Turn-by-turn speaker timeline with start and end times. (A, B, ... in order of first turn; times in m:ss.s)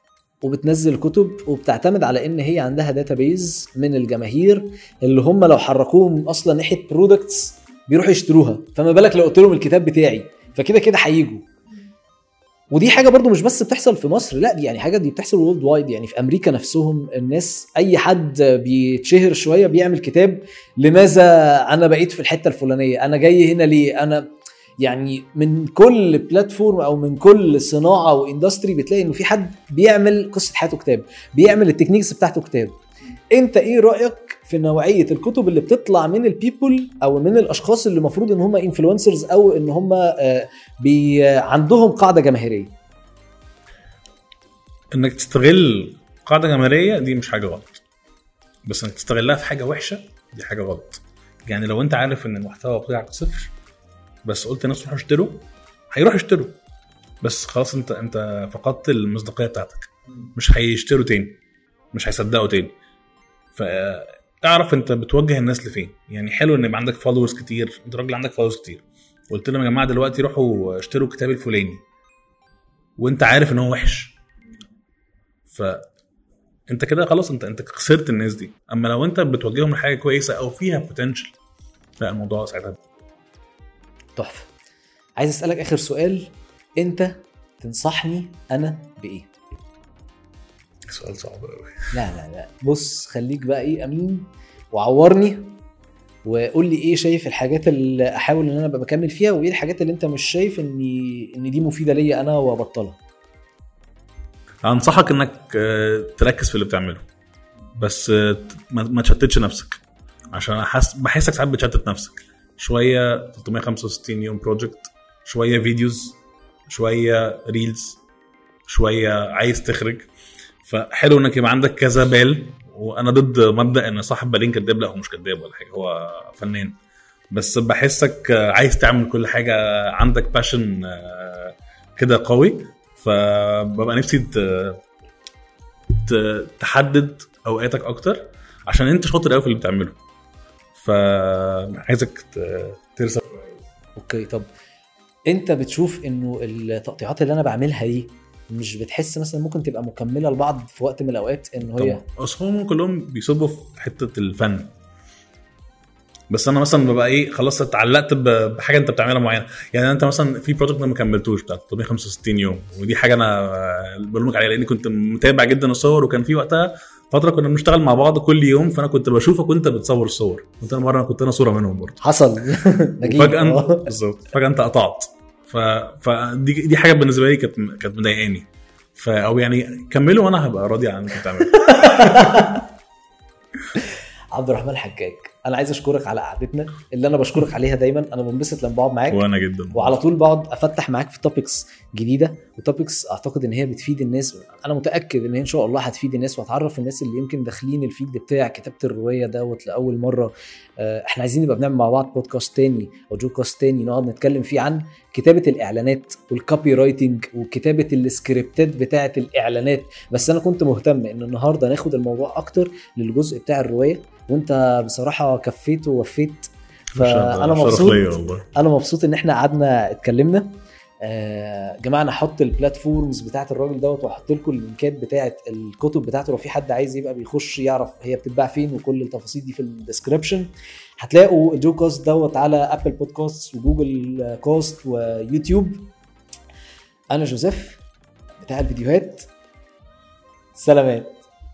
0:00.4-0:11.5 A
0:12.7-0:24.3 A
0:24.8-0:32.7 A
0:33.3-0:42.7 A
0:44.9-0:47.8 B
0:48.6-0:53.5 B
0:54.2-0:56.6 B
0:57.2-1:01.4 B
1:01.9-1:02.7 B
1:03.5-1:11.8 B
1:13.0-1:14.2 B
1:15.5-1:15.9 B
1:16.7-1:21.4 B
1:22.0-1:22.8 B
1:24.2-1:24.5 A
1:25.2-1:29.3 A
1:30.9-1:31.9 B
1:31.9-1:35.6 A
1:36.2-1:43.0 A
1:44.6-1:47.0 B
1:47.8-1:49.8 B
1:50.3-1:58.0 B
1:58.7-2:00.1 B
2:00.6-2:06.8 B
2:07.3-2:14.8 B
2:15.9-2:20.0 B
2:20.7-2:23.6 B
2:24.0-2:24.4 A
2:25.3-2:32.0 A
2:31.6-2:34.7 B
2:36.3-2:52.0 B
2:52.0-2:53.9 A
2:53.0-3:02.6 B
3:01.6-3:02.6 A
3:03.8-3:09.2 A
3:09.1-3:10.0 B
3:09.7-3:55.9 A
3:36.9-3:38.5 B
3:57.1-3:57.8 A
3:58.4-3:59.3 A
4:00.6-4:01.2 A